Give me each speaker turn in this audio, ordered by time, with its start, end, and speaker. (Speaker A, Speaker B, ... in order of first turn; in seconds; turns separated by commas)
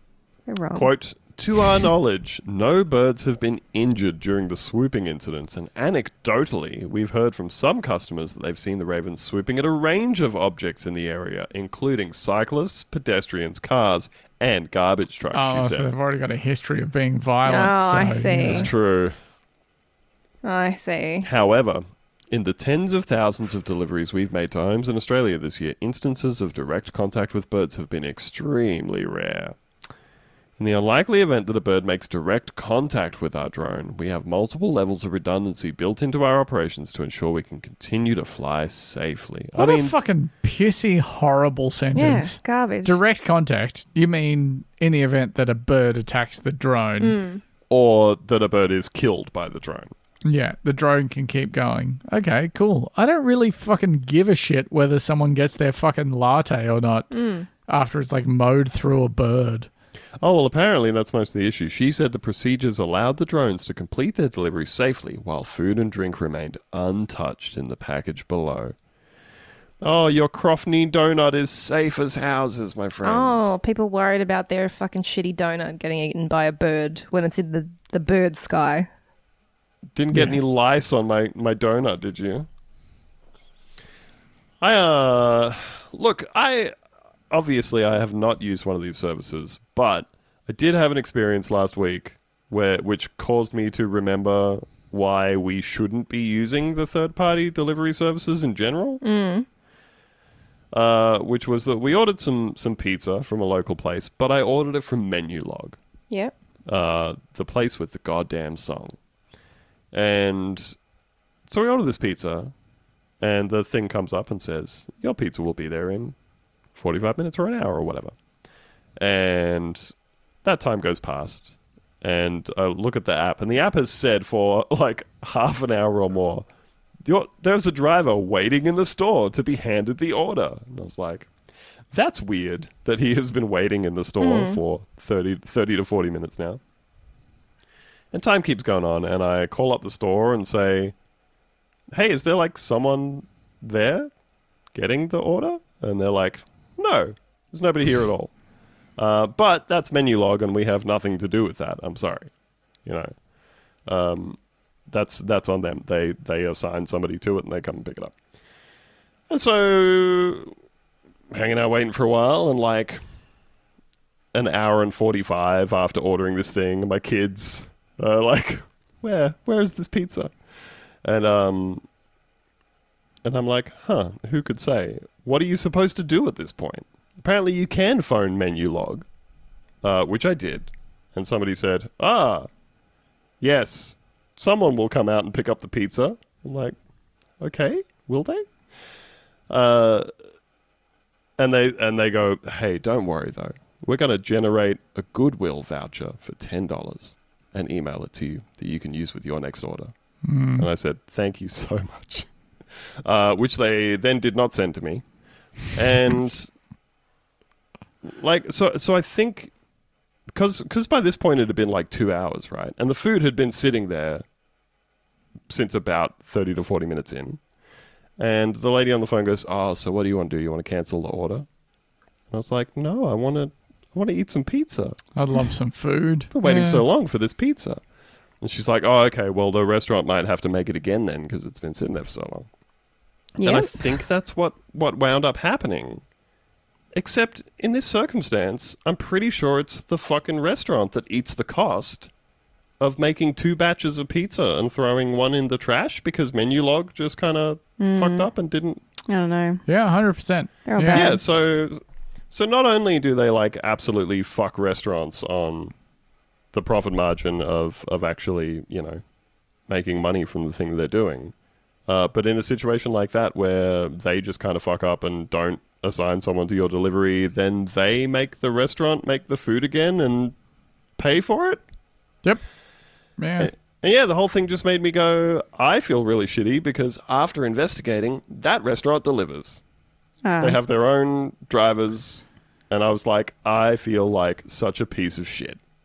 Speaker A: 0.5-0.9, Speaker B: 0.8-15.9, Speaker C: 15.3-18.7, Speaker A: 17.4-18.7, Speaker B: 18.5-19.1, Speaker A: 20.4-21.3, Speaker B: 21.2-29.6, Speaker B: 30.6-39.9, Speaker C: 39.5-47.2, Speaker A: 42.0-43.0, Speaker A: 47.0-47.4, Speaker B: 47.7-49.9, Speaker C: 50.3-57.1, Speaker A: 57.1-57.5, Speaker C: 57.7-59.7, Speaker B: 60.2-68.8, Speaker B: 69.8-73.5, Speaker A: 73.0-78.9, Speaker B: 80.0-82.5, Speaker C: 80.1-80.5, Speaker B: 84.6-86.7, Speaker B: 87.3-99.0, Speaker A: 99.0-99.5, Speaker B: 100.7-105.8, Speaker B: 106.7-109.0, Speaker B: 109.9-110.8, Speaker B: 111.5-112.5, Speaker B: 113.2-116.2, Speaker B: 116.7-118.2, Speaker B: 119.0-119.9, Speaker B: 120.4-126.5, Speaker B: 127.0-131.3, Speaker B: 131.9-136.6, Speaker A: 134.2-134.6, Speaker B: 138.1-140.9, Speaker B: 141.9-144.1, Speaker B: 144.7-148.3, Speaker B: 149.0-152.3, Speaker B: 152.8-153.2, Speaker B: 153.9-158.2, Speaker B: 159.3-160.5, Speaker B: 161.3-163.0, Speaker B: 164.3-170.3, Speaker B: 171.0-171.8, Speaker B: 173.2-179.1, Speaker B: 179.8-182.5, Speaker B: 183.4-186.8, Speaker B: 187.4-188.5, Speaker B: 189.5-190.1, Speaker B: 191.4-199.9, Speaker C: 200.2-200.7, Speaker B: 200.6-202.3, Speaker B: 203.0-205.1, Speaker B: 205.7-206.5, Speaker B: 208.0-209.5, Speaker B: 210.3-214.2, Speaker B: 215.5-217.4, Speaker B: 218.2-221.5, Speaker B: 222.3-225.0, Speaker C: 225.2-226.8, Speaker B: 226.3-227.8, Speaker B: 228.4-232.5, Speaker A: 233.4-233.9, Speaker B: 233.4-236.0, Speaker B: 236.9-242.1, Speaker B: 242.8-248.8, Speaker A: 247.8-248.3, Speaker A: 249.1-249.6, Speaker C: 249.7-251.1, Speaker A: 250.7-251.2, Speaker B: 250.9-251.8, Speaker B: 252.3-255.7, Speaker B: 256.5-259.0, Speaker B: 259.7-261.3, Speaker B: 261.9-270.4, Speaker B: 271.0-271.6, Speaker C: 273.2-273.5, Speaker B: 273.4-279.6, Speaker A: 280.2-280.6, Speaker B: 280.4-285.6